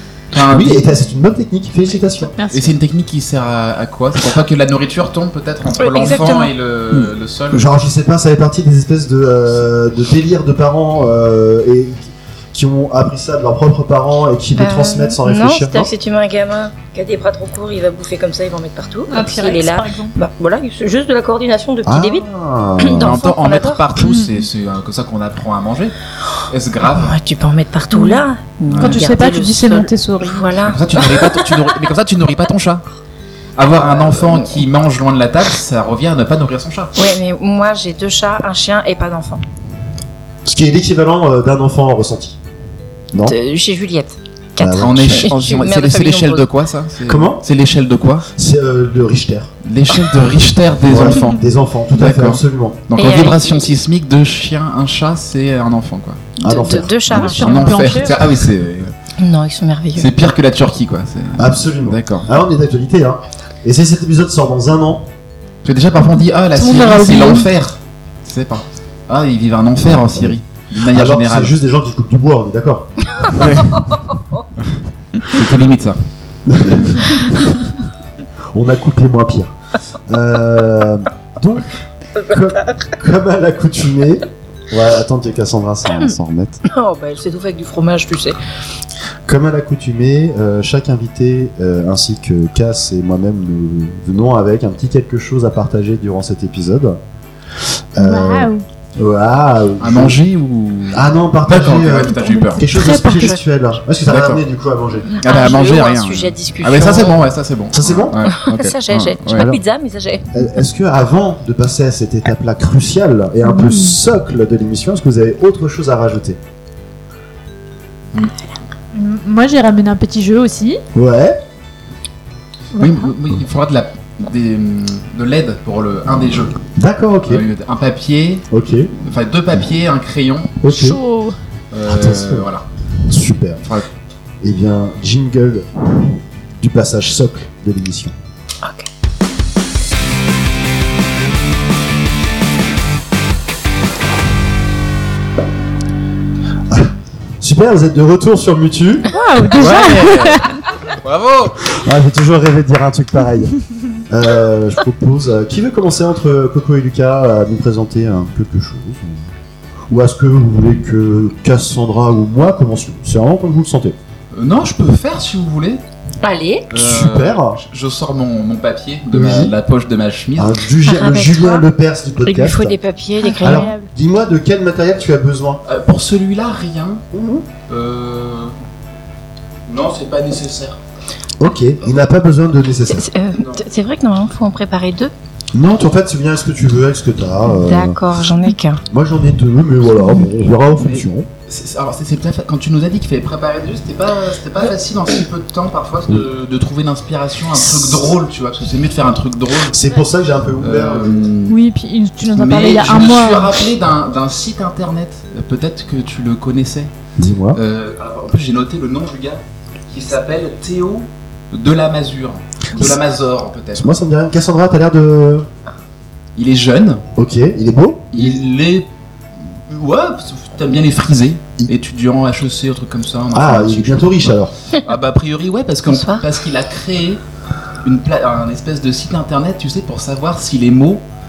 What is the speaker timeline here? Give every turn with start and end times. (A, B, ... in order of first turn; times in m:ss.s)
0:00.3-0:01.1 A
0:00.4-0:02.3 B
0:02.4-0:02.7 C
0:02.4-0:07.7 A
0:05.8-0:06.5 D
0:06.9-0:15.9 B
0:14.6-0:22.2 D
0:19.1-0:20.1 C
0:21.8-0:23.2 B
0:22.8-0:23.8 D
0:23.0-0:25.9 A
0:24.0-0:24.4 C
0:26.5-0:27.2 A
0:26.9-0:31.5 D
0:27.9-0:28.2 C
0:28.7-0:29.0 A
0:28.8-0:30.5 C
0:30.6-0:32.8 A
0:33.6-0:36.9 A
0:33.9-0:34.3 D
0:37.0-0:39.4 D
0:40.4-0:42.4 B
0:43.2-0:46.5 D
0:44.6-0:45.3 B
0:44.8-0:48.3 A
0:47.1-0:47.4 B
0:48.3-0:49.5 B
0:49.6-0:56.3 A
0:50.8-0:52.8 B
0:53.0-0:53.5 D
0:56.4-0:58.1 D
0:56.4-0:57.0 B
0:57.1-0:58.9 A
0:57.1-0:58.2 C
0:59.2-1:00.1 D
1:00.0-1:02.3 A
1:01.4-1:05.1 B
1:05.6-1:11.6 A
1:06.5-1:07.5 C
1:10.8-1:12.9 B
1:13.4-1:13.9 A
1:15.2-1:16.0 A
1:16.5-1:17.3 B
1:18.5-1:19.5 B
1:20.1-1:21.6 B
1:22.3-1:26.6 B
1:26.7-1:28.4 D
1:29.2-1:37.0 B
1:37.9-1:40.2 B
1:38.0-1:38.6 C
1:39.8-1:42.6 A
1:40.9-1:45.2 B
1:42.1-1:43.4 C
1:44.1-1:44.4 A
1:45.1-1:47.2 D
1:45.2-1:49.5 A
1:47.7-1:48.3 B
1:48.3-1:50.3 D
1:49.3-1:49.6 B
1:50.3-1:56.4 B
1:53.4-1:53.9 C
1:58.9-2:00.8 C
2:00.9-2:01.4 B
2:02.7-2:03.0 C
2:02.8-2:06.6 A
2:06.7-2:07.4 B
2:07.2-2:08.4 A
2:08.5-2:08.9 B
2:09.0-2:10.6 A
2:10.6-2:11.0 B
2:10.7-2:11.3 C
2:11.7-2:12.6 A
2:11.8-2:12.5 B
2:13.1-2:13.6 B
2:13.6-2:13.9 A
2:14.4-2:18.1 B
2:18.6-2:18.9 D
2:26.7-2:29.1 B
2:29.1-2:30.6 C
2:29.6-2:31.8 A
2:31.7-2:33.5 B
2:34.1-2:39.3 B
2:39.9-2:44.0 B
2:44.3-2:45.8 A
2:46.2-2:46.7 D
2:46.7-2:50.6 A
2:46.7-2:47.6 B
2:49.1-2:49.5 B
2:50.3-2:52.8 B
2:50.8-2:51.6 D
2:52.2-2:53.7 D
2:53.2-2:53.9 C
2:53.4-2:55.6 B
2:55.6-2:57.0 A
2:57.1-2:57.4 B
2:57.7-2:58.5 A
2:59.7-3:00.8 A
3:01.4-3:03.1 B
3:02.9-3:05.1 D
3:03.4-3:03.6 A
3:05.5-3:08.0 B
3:07.6-3:08.8 D
3:08.9-3:11.3 B
3:10.8-3:19.9 A
3:19.7-3:21.3 B
3:20.6-3:21.6 A
3:21.5-3:23.5 C
3:22.4-3:26.9 A
3:27.2-3:27.6 B
3:27.5-3:33.9 A
3:33.8-3:35.5 B
3:36.4-3:37.0 A
3:37.2-3:38.4 B
3:38.1-3:38.9 A
3:39.7-3:44.2 A
3:43.3-3:44.5 B
3:44.8-3:47.2 A
3:45.9-3:46.2 D
3:47.8-3:51.0 A